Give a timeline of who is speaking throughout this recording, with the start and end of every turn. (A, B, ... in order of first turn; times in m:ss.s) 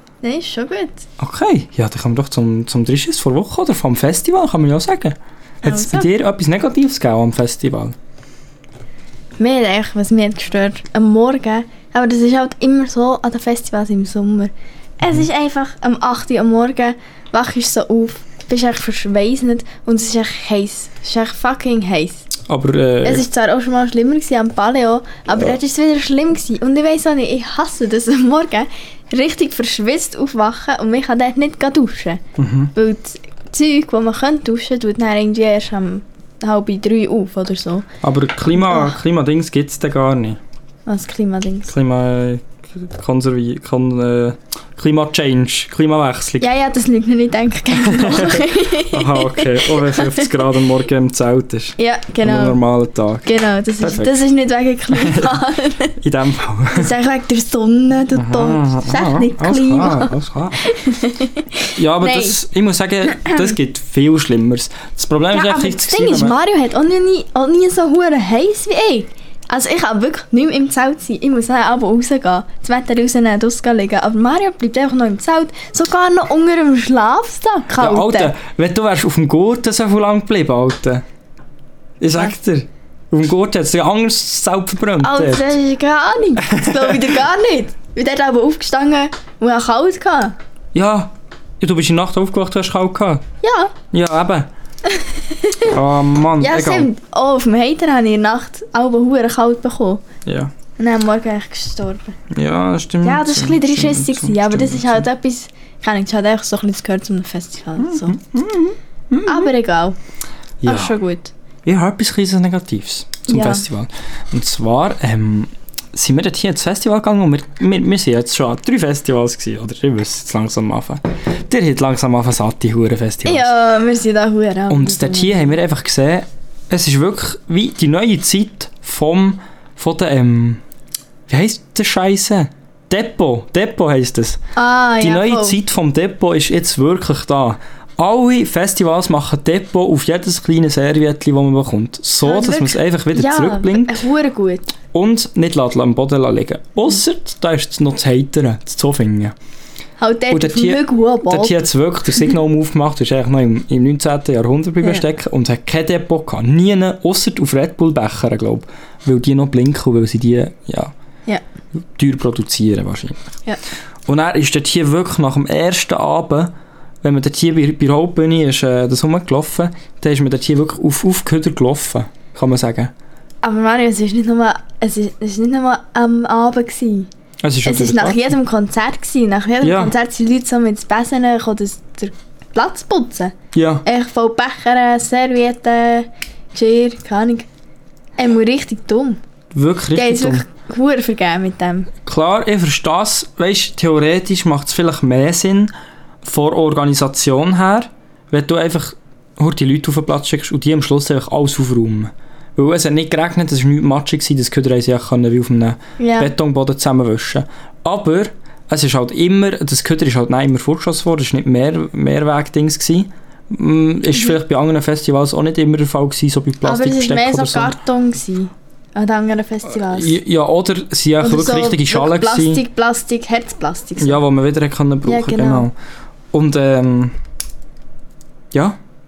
0:00.2-0:01.1 A
0:01.2-0:08.0 B
0:05.6-0:06.1 A
0:09.4-0:22.3 A
0:22.5-0:23.2 B
0:23.0-0:32.2 A
0:32.4-0:32.7 B
0:32.7-0:37.9 A
0:38.0-0:40.4 B
0:38.6-0:38.9 A
0:40.9-0:41.7 A
0:41.7-0:46.5 B
0:46.4-0:50.3 A
0:47.7-0:54.2 B
0:51.8-0:52.6 A
0:53.2-0:55.9 A
0:54.9-0:55.4 B
0:56.0-0:56.9 B
0:56.7-1:02.4 A
0:58.1-1:00.6 B
1:01.8-1:06.4 B
1:03.1-1:03.5 A
1:05.3-1:18.3 A
1:17.8-1:21.0 B
1:22.0-1:25.5 B
1:25.0-1:30.4 A
1:26.5-1:27.1 B
1:30.7-1:33.2 B
1:33.4-1:33.7 A
1:33.9-1:34.5 B
1:34.9-1:35.7 A
1:35.7-1:36.9 B
1:36.4-1:40.0 A
1:40.2-1:40.5 B
1:40.8-1:42.2 A
1:42.3-1:45.1 B
1:43.0-1:48.2 A
1:47.8-1:49.5 B
1:49.3-1:50.0 A
1:50.6-1:50.9 B
1:50.6-1:51.3 A
1:51.6-2:03.5 B
1:53.3-1:53.6 A
2:03.2-2:05.5 A
2:04.7-2:10.6 B
2:11.3-2:14.4 B
2:14.6-2:15.6 A
2:15.0-2:24.0 B
2:22.2-2:24.7 A
2:24.9-2:29.3 B
2:30.0-2:31.6 A
2:30.3-2:40.9 B
2:41.9-2:43.2 B
2:44.0-2:52.9 B
2:53.4-2:57.1 A
2:57.4-2:58.3 B
2:57.6-3:07.5 A
2:59.6-2:59.9 B
3:03.5-3:03.8 B
3:08.2-3:09.2 A
3:09.5-3:10.4 B
3:09.9-3:11.9 A
3:12.0-3:15.7 B
3:16.2-3:37.8 B
3:26.0-3:26.3 A
3:36.6-3:40.2 A
3:39.8-3:42.6 B
3:41.2-3:44.2 A
3:44.0-3:45.7 B
3:45.0-3:45.7 A
3:46.3-3:47.2 B
3:48.5-3:48.8 B